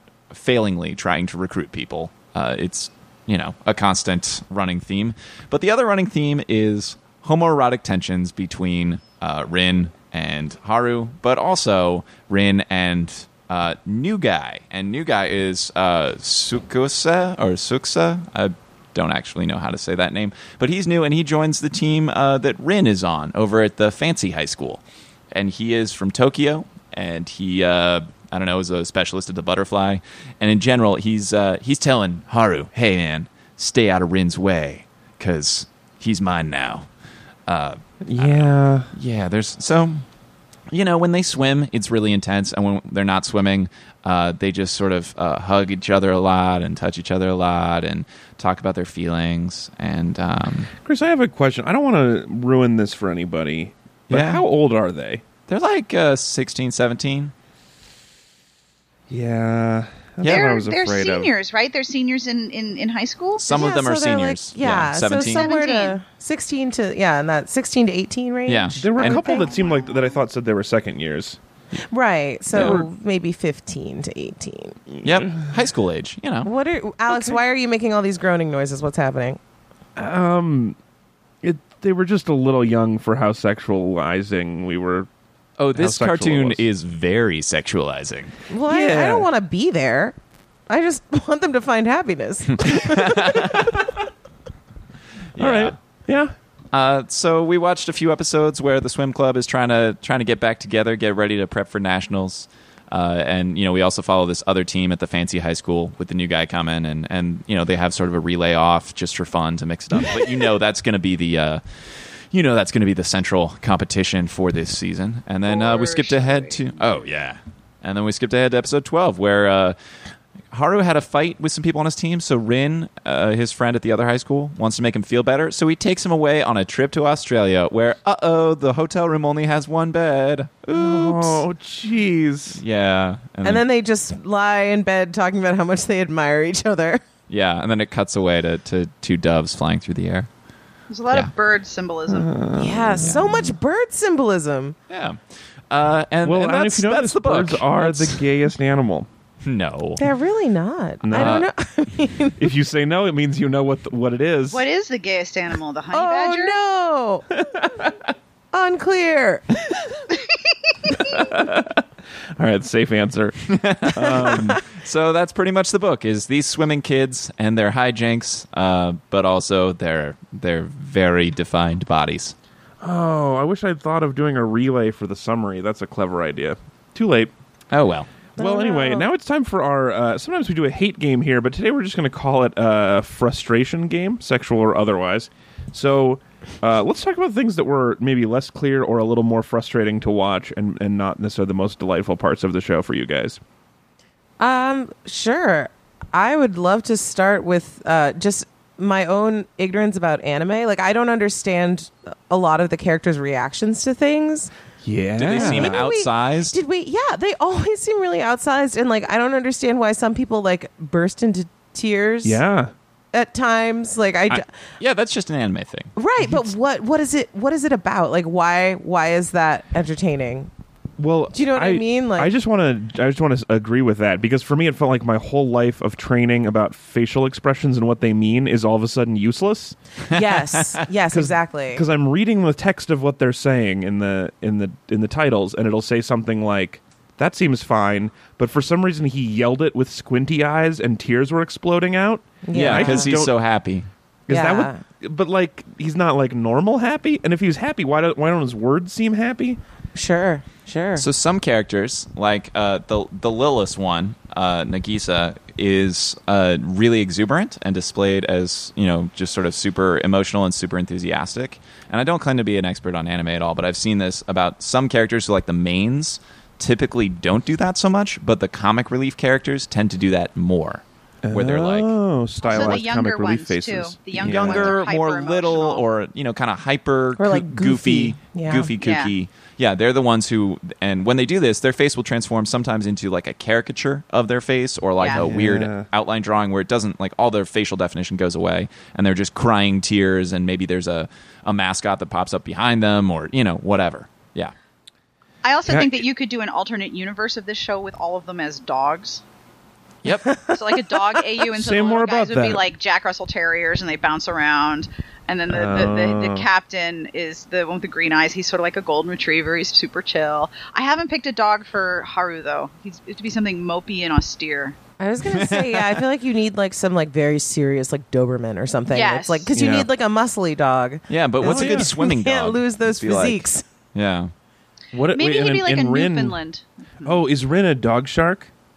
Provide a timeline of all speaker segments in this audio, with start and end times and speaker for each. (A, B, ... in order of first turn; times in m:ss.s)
0:00.3-0:36.9 A
0:37.5-0:40.0 A
0:38.0-0:38.9 B
0:40.7-0:50.7 A
0:50.8-0:55.2 B
0:54.1-0:54.4 A
0:55.5-0:57.3 A
0:59.1-1:01.3 B
1:00.2-1:03.5 C
1:03.4-1:05.5 A
1:03.5-1:09.5 D
1:05.1-1:06.0 C
1:08.5-1:09.2 A
1:08.8-1:11.4 B
1:09.4-1:10.0 C
1:11.9-1:14.8 D
1:12.5-1:12.8 A
1:12.5-1:12.8 B
1:14.9-1:15.5 B
1:15.0-1:16.5 A
1:16.4-1:19.4 D
1:20.0-1:20.8 B
1:21.4-1:25.1 B
1:25.6-1:28.3 A
1:25.8-1:26.6 B
1:28.5-1:30.2 D
1:28.6-1:29.3 B
1:30.7-1:33.8 D
1:32.5-1:33.8 A
1:35.4-1:35.8 A
1:35.4-1:36.3 B
1:36.7-1:59.8 A
1:55.5-1:57.0 C
2:00.5-2:11.4 A
2:10.7-2:12.6 B
2:12.6-2:13.6 A
2:13.4-2:17.0 D
2:17.3-2:20.3 A
2:20.9-2:22.3 C
2:22.1-2:23.3 B
2:22.6-2:24.8 D
2:23.0-2:23.4 A
2:24.9-2:28.2 A
2:26.2-2:29.1 B
2:29.4-2:30.0 A
2:30.0-2:32.4 D
2:31.0-2:31.4 B
2:31.1-2:31.5 A
2:32.4-2:34.6 B
2:34.5-2:36.6 C
2:35.9-2:37.3 D
2:37.3-2:37.9 B
2:38.5-2:39.6 D
2:41.1-2:41.8 B
2:42.4-2:44.6 B
2:43.5-2:52.4 A
2:52.8-2:57.3 B
2:57.7-2:58.1 A
2:58.4-2:59.1 D
2:58.4-3:13.4 B
3:14.4-3:24.5 D
3:24.8-3:25.9 B
3:25.2-3:26.6 A
3:25.3-3:32.4 D
3:32.2-3:32.7 B
3:33.1-3:34.5 D
3:34.8-3:35.9 A
3:36.0-3:40.5 D
3:36.2-3:36.5 B
3:41.0-3:49.8 B
3:41.3-3:42.3 D
3:50.1-3:50.8 A
3:50.1-3:51.8 D
3:51.1-4:03.4 B
4:02.4-4:03.2 D
4:02.5-4:03.9 A
4:04.3-4:09.6 B
4:04.3-4:04.8 D
4:10.0-4:11.1 D
4:11.0-4:31.9 A
4:31.2-4:34.8 B
4:32.4-4:35.9 C
4:32.5-4:32.8 A
4:34.2-4:54.5 A
4:37.2-4:38.7 D
4:38.8-4:39.1 C
4:45.0-4:45.3 C
4:45.0-4:45.9 B
4:55.4-4:59.2 C
4:55.7-4:56.0 B
5:00.0-5:00.4 A
5:00.5-5:14.8 C
5:01.5-5:02.7 B
5:05.5-5:06.5 B
5:15.0-5:23.6 D
5:15.2-5:16.0 A
5:18.9-5:19.5 C
5:19.5-5:19.9 B
5:21.1-5:24.3 A
5:21.4-5:21.9 B
5:24.9-5:26.4 B
5:25.1-5:27.1 C
5:27.0-5:28.5 B